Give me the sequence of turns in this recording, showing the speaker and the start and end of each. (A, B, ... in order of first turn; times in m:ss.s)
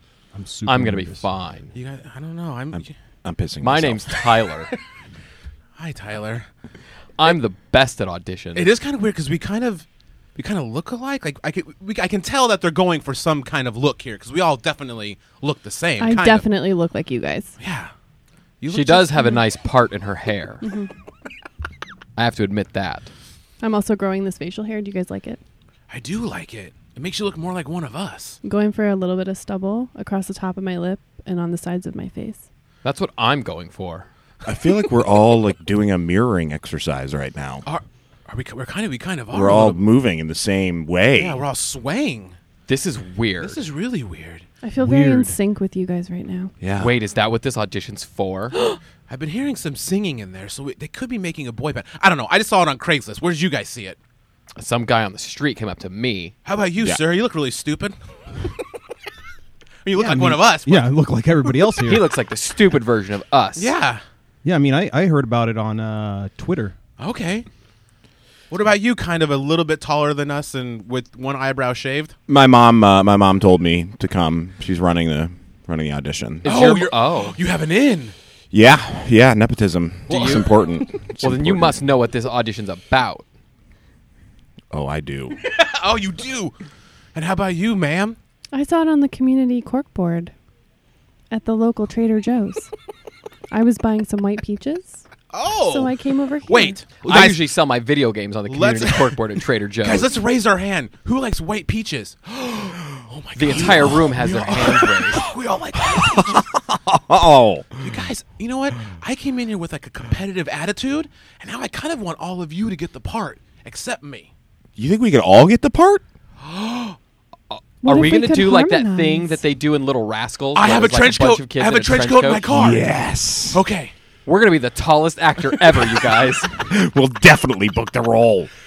0:00.3-0:01.2 A
0:00.7-0:01.7 B
0:01.7-0:02.9 C
0:02.7-0:04.2 D
0:03.6-0:04.7 B
0:05.8-0:06.5 C
0:07.2-0:08.7 B
0:08.5-0:16.4 C
0:16.0-0:17.5 E
0:17.6-0:17.9 C
0:18.6-0:19.3 C
0:18.7-0:20.6 B
0:20.6-0:20.9 E
0:22.2-0:23.1 B
0:23.6-0:25.4 E
0:25.9-0:28.4 C
0:28.4-0:32.4 E
0:32.8-0:34.1 B
0:34.4-0:37.6 D
0:37.6-0:39.8 C
0:39.3-0:41.4 D
0:41.2-0:42.4 C
0:42.7-0:43.6 B
0:43.4-0:44.4 C
0:44.6-0:46.5 E
0:44.8-0:45.4 A
0:46.6-0:46.9 D
0:46.8-0:48.6 B
0:49.1-0:54.0 C
0:54.6-0:56.3 B
0:56.4-0:58.0 C
0:59.8-1:00.9 C
0:59.9-1:02.1 A
1:01.8-1:03.7 B
1:03.6-1:04.0 C
1:04.4-1:06.7 A
1:07.0-1:07.4 C
1:08.5-1:12.1 C
1:12.3-1:16.4 D
1:16.4-1:17.4 B
1:16.4-1:18.1 C
1:18.5-1:21.8 D
1:20.1-1:20.5 B
1:20.1-1:20.8 C
1:21.2-1:23.2 B
1:24.7-1:25.4 D
1:25.4-1:26.5 C
1:27.1-1:28.2 C
1:28.5-1:30.3 E
1:31.3-1:32.7 E
1:33.5-1:35.0 E
1:35.3-1:35.9 C
1:35.6-1:36.8 E
1:36.5-1:37.4 C
1:37.0-1:40.1 B
1:38.5-1:39.2 C
1:39.8-1:46.5 C
1:43.4-1:45.2 B
1:45.8-1:47.8 D
1:47.8-1:54.3 C
1:54.8-1:56.0 D
1:56.4-1:57.0 C
1:57.5-2:02.5 B
1:57.8-1:59.4 E
2:00.6-2:02.8 C
2:02.5-2:03.6 D
2:03.5-2:03.9 C
2:04.2-2:06.5 B
2:06.7-2:08.5 D